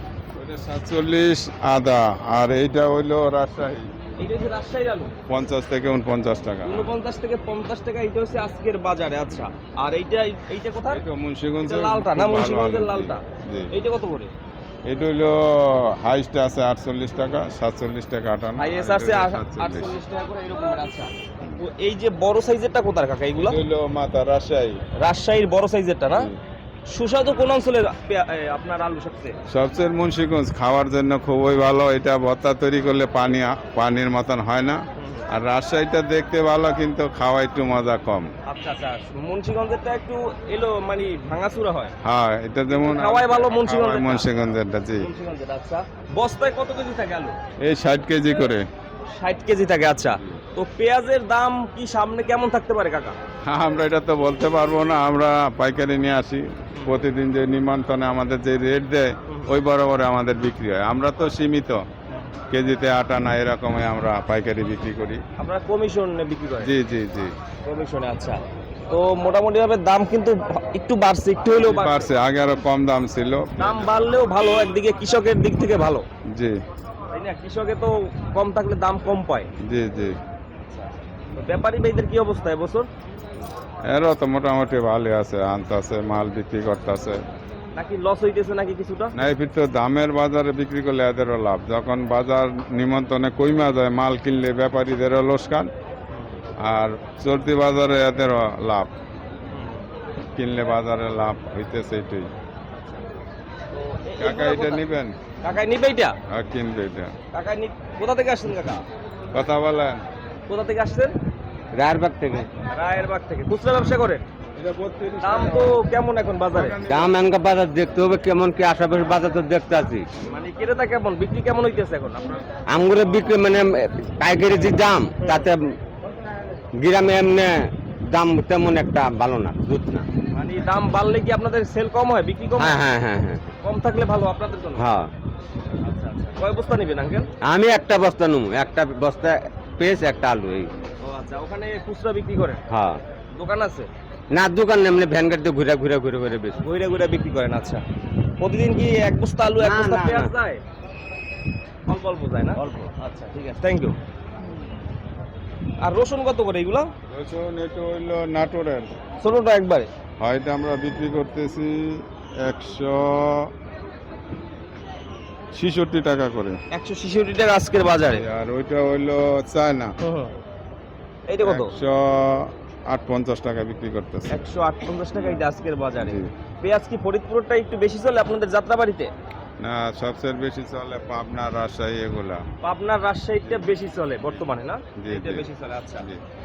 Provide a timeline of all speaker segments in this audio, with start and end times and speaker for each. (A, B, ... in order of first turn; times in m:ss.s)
0:00.3-0:03.9 A
0:04.2-0:05.1 B
0:05.3-0:06.9 A
0:06.6-0:11.0 B
0:10.9-0:13.7 A
0:11.6-0:14.3 B
0:14.8-0:20.0 A
0:18.6-0:23.6 B
0:23.4-0:24.8 A
0:25.0-0:26.3 B
0:26.9-0:29.4 B
0:29.5-0:38.3 A
0:35.0-0:35.3 B
0:38.5-0:41.9 B
0:42.0-0:45.1 A
0:42.7-0:44.4 B
0:44.9-0:47.3 B
0:47.6-0:48.6 A
0:49.1-0:53.2 B
0:53.5-1:01.8 A
0:56.7-0:57.0 B
1:02.1-1:02.3 B
1:02.5-1:05.2 A
1:05.4-1:06.7 B
1:06.6-1:07.3 A
1:07.6-1:12.1 B
1:11.6-1:14.1 A
1:13.6-1:16.0 B
1:16.3-1:16.6 A
1:17.1-1:19.5 B
1:19.6-1:20.2 A
1:21.3-1:22.9 B
1:23.9-1:27.2 A
1:27.8-1:29.1 B
1:29.2-1:35.7 A
1:36.1-1:36.4 B
1:36.6-1:38.9 A
1:39.5-1:39.8 B
1:40.4-1:42.3 A
1:42.8-1:43.0 B
1:43.7-1:44.8 B
1:44.2-1:45.2 A
1:45.4-1:46.1 B
1:46.3-1:47.1 A
1:47.3-1:48.8 B
1:49.3-1:50.0 A
1:50.5-1:51.1 B
1:51.7-1:52.5 C
1:52.7-1:54.2 B
1:54.6-1:55.8 A
1:55.2-1:56.8 B
1:56.5-1:57.2 A
1:56.9-2:00.1 C
2:00.2-2:02.5 B
2:02.7-2:05.7 C
2:05.2-2:05.5 B
2:06.8-2:10.0 C
2:10.3-2:12.8 B
2:12.6-2:13.5 C
2:13.6-2:14.9 B
2:14.8-2:15.1 C
2:15.8-2:17.3 B
2:17.4-2:20.7 C
2:21.0-2:22.6 B
2:22.7-2:23.0 C
2:23.4-2:23.9 B
2:24.3-2:26.6 C
2:26.6-2:27.8 B
2:28.4-2:30.6 B
2:29.6-2:30.3 C
2:31.9-2:34.0 B
2:35.8-2:36.9 B
2:37.1-2:38.9 A
2:39.2-2:39.9 B
2:40.2-2:43.5 A
2:45.5-2:46.6 A
2:46.7-2:48.2 B
2:48.1-2:49.9 A
2:50.0-2:50.3 B
2:51.3-2:51.7 B
2:51.4-2:54.4 A
2:54.3-2:59.1 B
2:55.2-2:55.4 A
2:56.0-2:56.3 A
2:59.6-3:02.4 A
3:02.6-3:06.0 B
3:03.4-3:03.8 A
3:05.0-3:06.2 A